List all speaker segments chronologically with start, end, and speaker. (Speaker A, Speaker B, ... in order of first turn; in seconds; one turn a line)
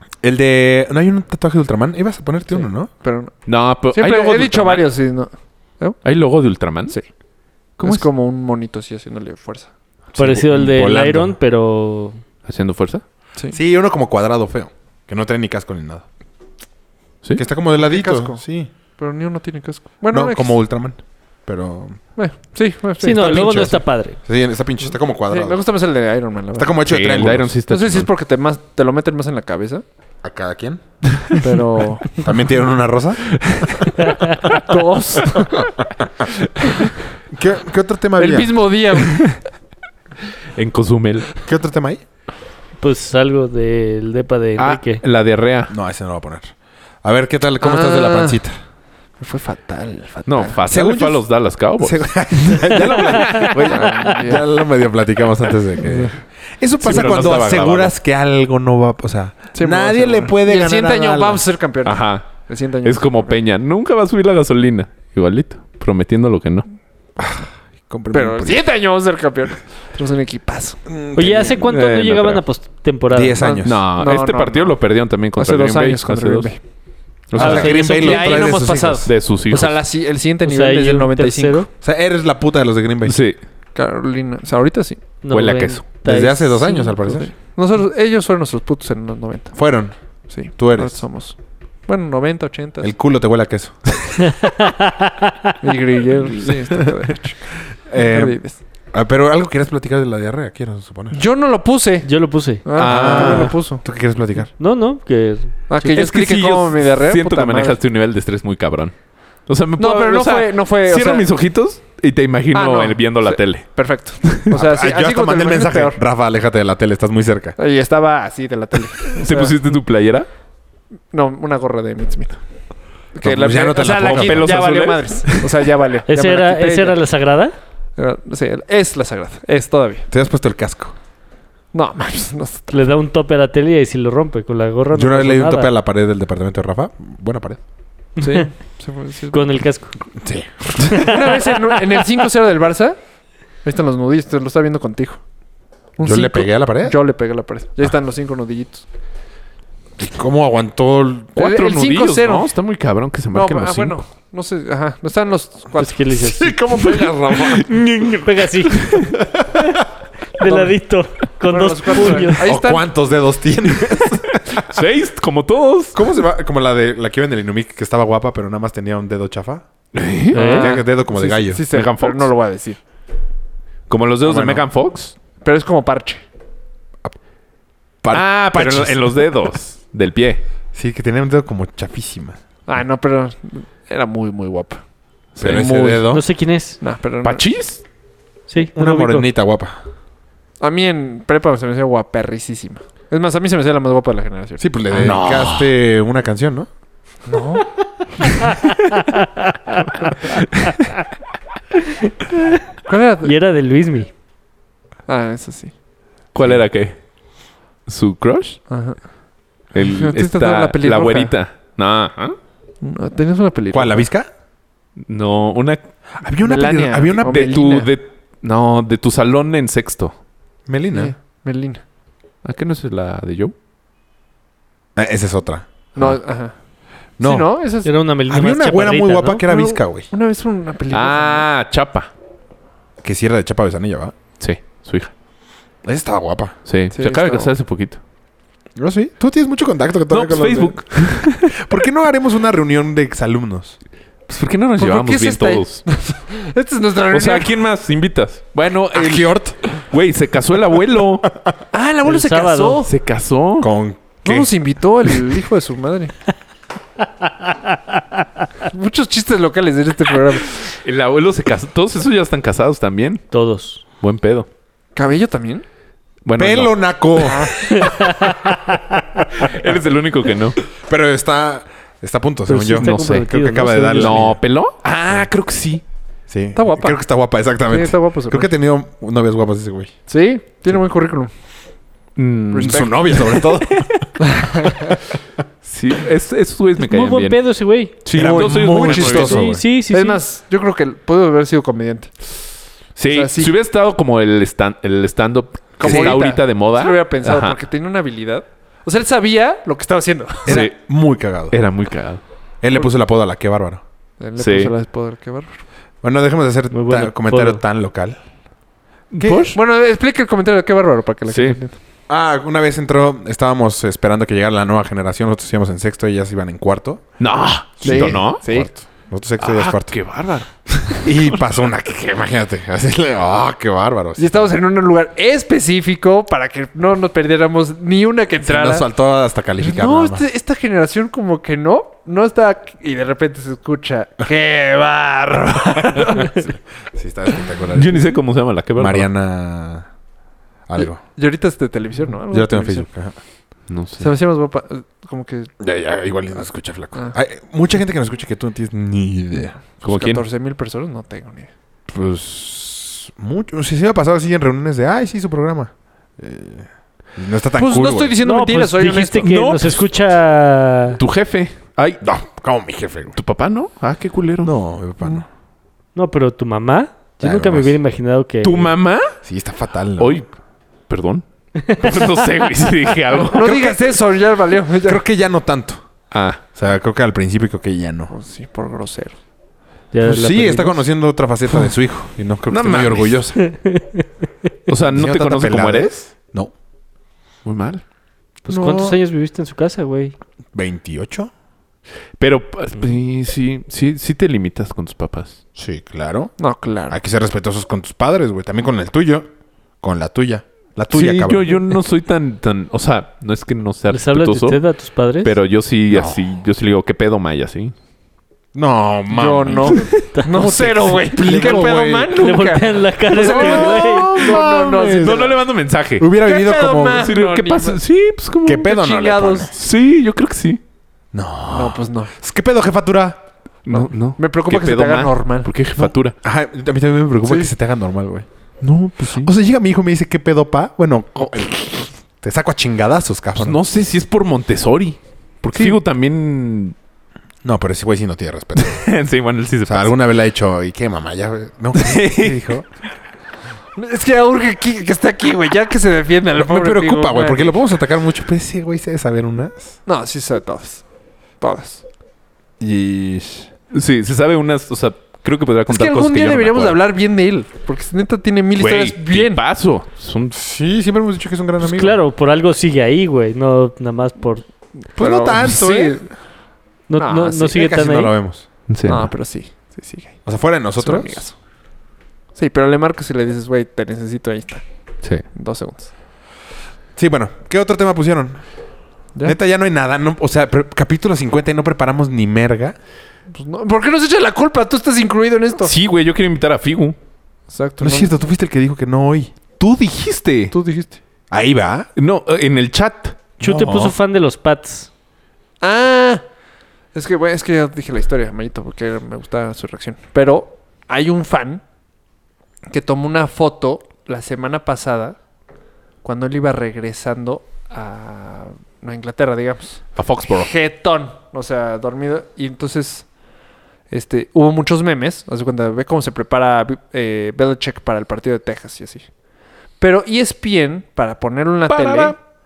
Speaker A: 0.2-2.9
Speaker B: 2.5-3.3
Speaker C: 3.5-4.9
Speaker B: 3.9-6.0
Speaker C: 6.0-7.0
Speaker C: 7.8-8.1
Speaker B: 7.8-9.7
Speaker A: 10.1-11.4
Speaker D: 10.2-12.2
Speaker C: 12.4-13.0
Speaker A: 13.5-16.0
Speaker A: 17.4-18.7
Speaker B: 17.7-20.6
Speaker A: 20.1-22.0
Speaker B: 22.1-23.5
Speaker D: 23.0-24.2
Speaker A: 23.1-25.6
Speaker B: 25.3-26.8
Speaker A: 26.5-27.6
Speaker C: 26.9-28.1
Speaker B: 27.7-29.8
Speaker A: 30.2-30.8
Speaker B: 31.4-32.2
Speaker A: 32.1-33.6
Speaker C: 33.4-33.7
Speaker B: 34.6-35.7
Speaker A: 37.3-38.6
Speaker B: 38.2-39.4
Speaker C: 40.5-41.3
Speaker A: 41.4-42.0
Speaker D: 42.8-45.0
Speaker C: 44.6-45.7
Speaker A: 45.7-48.5
Speaker B: 47.6-48.4
Speaker B: 49.2-50.6
Speaker C: 50.2-54.2
Speaker A: 50.7-61.4
Speaker B: 53.6-54.4
Speaker B: 55.8-56.1
Speaker C: 56.8-57.9
Speaker B: 59.5-63.4
Speaker C: 61.8-66.7
Speaker A: 67.2-68.7
Speaker B: 68.1-70.9
Speaker A: 70.9-71.6
Speaker D: 71.1-73.4
Speaker C: 71.6-72.4
Speaker A: 73.1-73.8
Speaker B: 73.4-74.8
Speaker C: 73.6-76.5
Speaker B: 75.3-76.6
Speaker C: 77.3-77.8
Speaker A: 77.3-79.1
Speaker D: 77.3-78.5
Speaker B: 77.7-81.7
Speaker C: 79.0-79.8
Speaker D: 80.4-81.7
Speaker A: 81.8-83.2
Speaker C: 83.0-83.4
Speaker B: 83.7-85.0
Speaker D: 85.2-87.0
Speaker C: 85.3-85.8
Speaker A: 86.0-87.3
Speaker B: 87.0-89.6
Speaker A: 89.5-91.0
Speaker B: 90.3-92.9
Speaker A: 92.8-94.2
Speaker D: 94.4-95.5
Speaker B: 95.6-98.6
Speaker A: 97.8-101.2
Speaker B: 101.1-103.8
Speaker D: 102.0-102.7
Speaker C: 102.8-103.5
Speaker A: 102.8-104.5
Speaker D: 104.6-105.9
Speaker B: 105.7-107.8
Speaker C: 105.8-114.5
Speaker B: 109.8-111.3
Speaker B: 112.5-116.0
Speaker A: 114.5-117.5
Speaker B: 117.6-119.6
Speaker C: 119.1-120.3
Speaker B: 121.1-122.4
Speaker B: 123.1-127.0
Speaker A: 123.2-124.7
Speaker C: 123.8-125.7
Speaker D: 126.1-127.5
Speaker B: 128.0-130.1
Speaker A: 130.1-130.9
Speaker B: 131.7-132.7
Speaker D: 132.7-135.7
Speaker A: 134.9-137.6
Speaker D: 138.2-138.5
Speaker B: 138.2-139.6
Speaker D: 139.3-140.0
Speaker A: 140.2-141.1
Speaker D: 140.9-141.2
Speaker B: 141.0-143.0
Speaker B: 143.6-145.2
Speaker B: 146.0-148.8
Speaker A: 146.0-147.0
Speaker A: 150.0-151.3
Speaker C: 151.3-154.0
Speaker B: 151.4-152.5
Speaker B: 153.3-157.4
Speaker D: 155.8-156.6
Speaker A: 156.2-157.6
Speaker C: 157.0-159.1
Speaker D: 158.2-159.0
Speaker A: 159.2-159.8
Speaker D: 160.4-162.4
Speaker B: 160.4-160.7
Speaker B: 161.4-162.9
Speaker A: 162.4-164.4
Speaker C: 163.9-166.0
Speaker A: 165.9-169.6
Speaker C: 169.9-170.5
Speaker D: 170.3-170.7
Speaker B: 170.3-172.8
Speaker A: 170.5-171.6
Speaker C: 171.7-172.3
Speaker C: 173.9-175.1
Speaker A: 174.2-174.6
Speaker B: 175.4-176.2
Speaker A: 178.0-179.3
Speaker C: 178.1-180.4
Speaker A: 180.7-182.4
Speaker B: 182.7-184.8
Speaker C: 185.3-185.9
Speaker A: 185.4-186.2
Speaker B: 185.5-186.0
Speaker D: 186.1-186.8
Speaker B: 186.8-187.5
Speaker C: 187.2-187.8
Speaker D: 188.5-189.2
Speaker A: 188.7-189.8
Speaker B: 190.6-194.6
Speaker A: 194.6-196.7
Speaker C: 194.9-195.7
Speaker B: 197.3-197.6
Speaker D: 199.1-200.3
Speaker B: 202.8-203.3
Speaker D: 203.2-204.1
Speaker B: 205.1-205.7
Speaker C: 206.3-207.0
Speaker C: 207.8-208.6
Speaker B: 208.7-209.0
Speaker C: 209.7-212.3
Speaker B: 209.8-211.3
Speaker B: 212.8-214.1
Speaker A: 213.7-214.3
Speaker C: 215.1-215.8
Speaker A: 216.2-217.9
Speaker B: 216.4-217.8
Speaker C: 217.2-220.1
Speaker A: 220.7-221.1
Speaker B: 220.9-221.8
Speaker C: 222.4-223.5
Speaker A: 224.9-226.2
Speaker B: 225.9-226.5
Speaker A: 227.2-227.5
Speaker B: 227.2-227.9
Speaker D: 227.8-229.4
Speaker A: 228.3-230.1
Speaker B: 229.5-231.4
Speaker C: 230.9-232.1
Speaker A: 233.0-234.1
Speaker C: 234.4-235.1
Speaker A: 235.8-236.6
Speaker C: 236.7-238.0
Speaker B: 236.9-237.5
Speaker A: 238.8-243.8
Speaker C: 240.1-241.6
Speaker C: 244.3-245.8
Speaker B: 244.8-247.5
Speaker C: 247.1-251.3
Speaker A: 248.9-249.6
Speaker B: 251.7-252.9
Speaker D: 252.1-252.8
Speaker C: 252.8-253.7
Speaker A: 253.6-254.5
Speaker B: 254.2-256.1
Speaker B: 258.7-260.6
Speaker C: 260.8-263.2
Speaker D: 263.3-263.8
Speaker C: 264.0-264.5
Speaker B: 264.9-265.6
Speaker C: 266.2-266.8
Speaker A: 266.4-267.9
Speaker B: 267.2-267.6
Speaker D: 267.7-269.0
Speaker C: 269.4-270.6
Speaker A: 270.8-274.4
Speaker D: 272.5-274.2
Speaker C: 272.8-273.3
Speaker C: 273.9-275.8
Speaker A: 276.3-279.9
Speaker B: 276.6-277.0
Speaker B: 277.7-278.5
Speaker B: 280.1-281.3
Speaker C: 282.1-283.9
Speaker B: 282.5-283.0
Speaker A: 282.5-284.3
Speaker B: 284.3-284.9
Speaker C: 285.6-287.4
Speaker D: 286.8-287.9
Speaker C: 288.0-289.4
Speaker A: 288.1-289.6
Speaker B: 288.2-292.1
Speaker D: 289.1-290.2
Speaker C: 292.9-297.6
Speaker B: 293.1-293.5
Speaker B: 295.8-300.6
Speaker A: 295.8-296.2
Speaker A: 300.4-301.6
Speaker C: 300.5-300.8
Speaker C: 301.5-302.2
Speaker A: 302.6-303.8
Speaker B: 304.2-305.5
Speaker C: 304.4-304.7
Speaker A: 306.0-308.2
Speaker D: 306.7-307.6
Speaker C: 309.1-309.6
Speaker A: 309.2-309.6
Speaker B: 309.5-311.8
Speaker C: 311.3-311.6
Speaker A: 312.1-317.0
Speaker C: 317.2-318.4
Speaker A: 317.8-319.9
Speaker B: 317.8-318.7
Speaker C: 319.4-321.6
Speaker A: 321.0-324.6
Speaker B: 324.1-328.9
Speaker A: 328.4-330.2
Speaker B: 329.6-336.4
Speaker A: 336.0-338.1
Speaker C: 337.7-339.1
Speaker A: 338.8-339.9
Speaker A: 340.7-341.0
Speaker B: 340.8-342.9
Speaker A: 342.3-343.1
Speaker C: 343.7-344.1
Speaker B: 344.0-345.5
Speaker A: 345.6-349.6
Speaker B: 349.8-351.5
Speaker C: 349.8-350.2
Speaker A: 351.9-358.1
Speaker B: 357.6-359.3
Speaker D: 358.2-361.0
Speaker C: 359.2-359.8
Speaker C: 361.0-362.0
Speaker A: 362.0-363.2
Speaker C: 363.1-364.5
Speaker A: 364.4-365.2
Speaker D: 365.9-368.7
Speaker A: 367.2-367.7
Speaker C: 368.4-369.1
Speaker A: 369.2-370.2
Speaker C: 370.0-370.3
Speaker C: 370.9-373.5
Speaker B: 373.3-375.0
Speaker A: 373.3-374.0
Speaker A: 374.8-375.9
Speaker C: 376.1-376.4
Speaker A: 376.5-378.1
Speaker B: 378.1-379.2
Speaker D: 379.9-380.9
Speaker A: 380.0-383.4
Speaker C: 382.5-383.3
Speaker D: 383.4-384.1
Speaker C: 384.7-386.0
Speaker A: 384.9-386.5
Speaker C: 387.4-387.8
Speaker A: 388.4-389.0
Speaker D: 388.4-390.1
Speaker A: 390.5-391.3
Speaker C: 392.2-395.4
Speaker A: 395.6-396.4
Speaker B: 396.4-397.0
Speaker A: 396.9-399.3
Speaker A: 399.8-401.6
Speaker C: 400.9-404.6
Speaker D: 403.9-405.3
Speaker C: 405.2-407.7
Speaker A: 405.9-406.2
Speaker A: 408.5-412.3
Speaker B: 409.1-415.4
Speaker D: 412.2-414.1
Speaker C: 413.1-416.1
Speaker A: 413.2-415.3
Speaker A: 416.0-417.1
Speaker B: 416.1-417.8
Speaker C: 416.9-418.7
Speaker A: 418.4-419.6
Speaker B: 418.6-419.5
Speaker C: 419.6-420.6
Speaker A: 421.1-423.2
Speaker B: 421.5-422.1
Speaker C: 423.6-426.1
Speaker B: 423.7-425.5
Speaker A: 425.8-428.3
Speaker B: 427.2-427.5
Speaker C: 428.6-429.3
Speaker A: 429.2-433.6
Speaker C: 433.4-436.7
Speaker A: 435.5-435.8
Speaker A: 437.4-438.9
Speaker C: 438.6-439.9
Speaker A: 439.6-442.7
Speaker C: 441.7-442.4
Speaker B: 443.8-447.6
Speaker A: 446.3-449.8
Speaker B: 449.9-450.8
Speaker B: 451.4-451.8
Speaker A: 452.6-453.5
Speaker C: 453.7-456.8
Speaker B: 455.7-459.4
Speaker C: 458.6-460.4
Speaker A: 460.3-462.0
Speaker D: 461.6-464.5
Speaker B: 464.8-466.2
Speaker A: 464.9-466.0
Speaker D: 466.9-468.1
Speaker B: 467.0-467.6
Speaker A: 467.5-468.5
Speaker C: 468.7-469.1
Speaker B: 468.9-470.2
Speaker A: 470.2-471.2
Speaker B: 470.8-471.4
Speaker B: 472.3-474.6
Speaker B: 475.1-475.9
Speaker A: 476.9-478.4
Speaker A: 479.2-482.8
Speaker B: 483.3-485.7
Speaker C: 485.6-486.9
Speaker B: 487.5-488.1
Speaker A: 487.8-489.3
Speaker C: 489.6-490.5
Speaker B: 490.5-491.0
Speaker A: 491.3-491.9
Speaker C: 491.9-493.2
Speaker A: 493.4-493.9
Speaker D: 493.4-494.9
Speaker B: 495.6-496.2
Speaker B: 496.9-501.6
Speaker B: 502.7-505.2
Speaker B: 506.0-513.1
Speaker C: 509.9-510.5
Speaker B: 513.9-519.1
Speaker B: 519.8-522.2
Speaker C: 521.7-522.1